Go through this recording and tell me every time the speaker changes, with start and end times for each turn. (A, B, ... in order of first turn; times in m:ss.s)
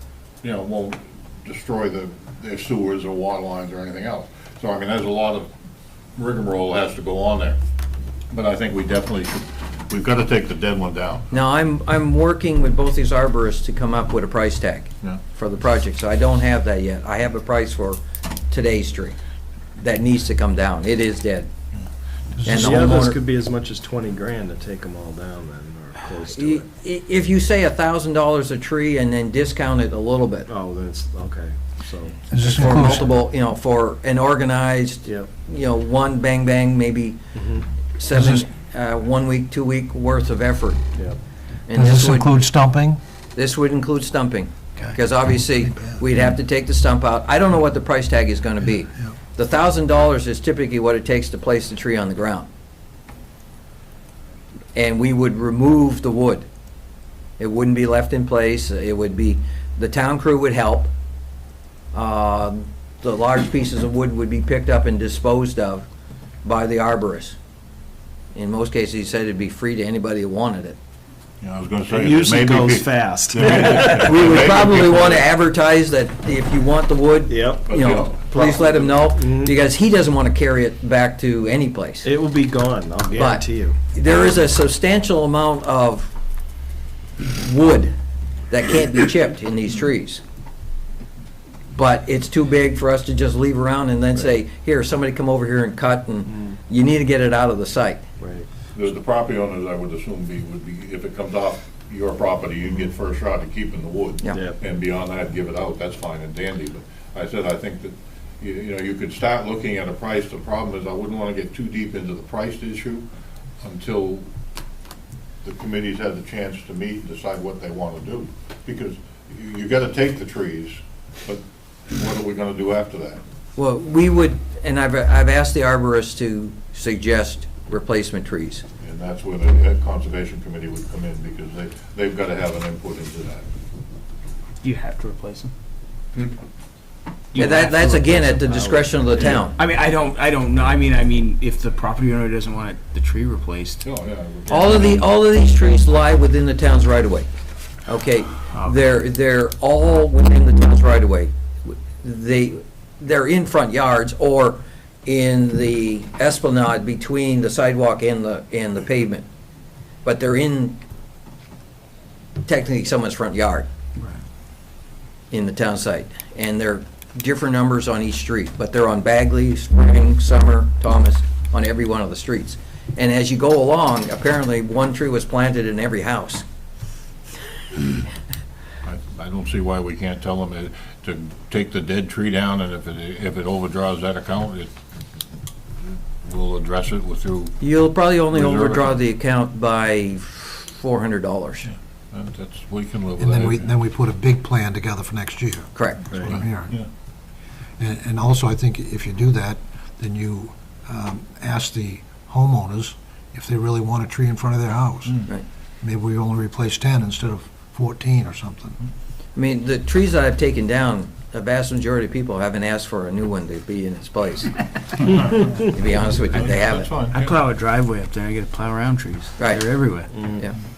0:00.4-0:05.5 A
0:06.2-0:07.6 A
0:08.3-0:11.3 A
0:11.3-0:19.2 B
0:19.8-0:21.5 B
0:22.3-0:23.0 C
0:22.4-0:23.2 B
0:22.5-0:26.6 D
0:26.3-0:30.5 B
0:30.5-0:33.0 D
0:32.3-0:33.1 C
0:32.4-0:37.2 B
0:37.3-0:37.6 D
0:38.0-0:40.8 B
0:38.1-0:38.4 C
0:40.9-0:41.2 D
0:41.7-0:42.4 B
0:41.7-0:43.0 C
0:43.4-0:52.5 B
0:44.8-0:46.2 C
0:54.7-0:56.4 B
0:57.4-1:00.9 B
1:01.9-1:05.8 B
1:06.4-1:07.4 B
1:08.3-1:10.8 B
1:11.4-1:15.2 A
1:11.9-1:14.2 D
1:14.0-1:22.1 B
1:17.3-1:17.7 D
1:17.7-1:18.5 A
1:18.3-1:19.5 D
1:22.0-1:23.8 D
1:23.1-1:26.1 B
1:27.2-1:27.9 B
1:28.5-1:30.2 B
1:31.7-1:38.0 B
1:38.2-1:38.5 D
1:38.7-1:53.0 A
1:53.6-1:54.3 A
1:55.4-2:03.2 A
2:03.6-2:08.6 B
2:08.8-2:13.4 A
2:14.6-2:15.5 E
2:17.3-2:23.8 E
2:17.3-2:19.5 B
2:23.8-2:25.0 A
2:24.5-2:27.3 B
2:27.8-2:39.2 B
2:40.0-2:40.8 B
2:42.4-2:43.7 B
2:45.3-2:56.4 B
2:58.8-3:04.7 A
3:06.2-3:07.6 A
3:07.6-3:11.7 B
3:08.3-3:09.0 A
3:11.6-3:13.7 A
3:13.2-3:16.7 C
3:15.7-3:16.1 B
3:16.1-3:16.9 A
3:17.8-3:25.3 C
3:25.8-3:28.8 C
3:29.4-3:34.6 B
3:35.1-3:35.5 A
3:35.3-3:36.9 B
3:36.3-3:37.3 A
3:37.1-3:40.1 E
3:39.4-3:39.6 B
3:40.2-3:40.4 D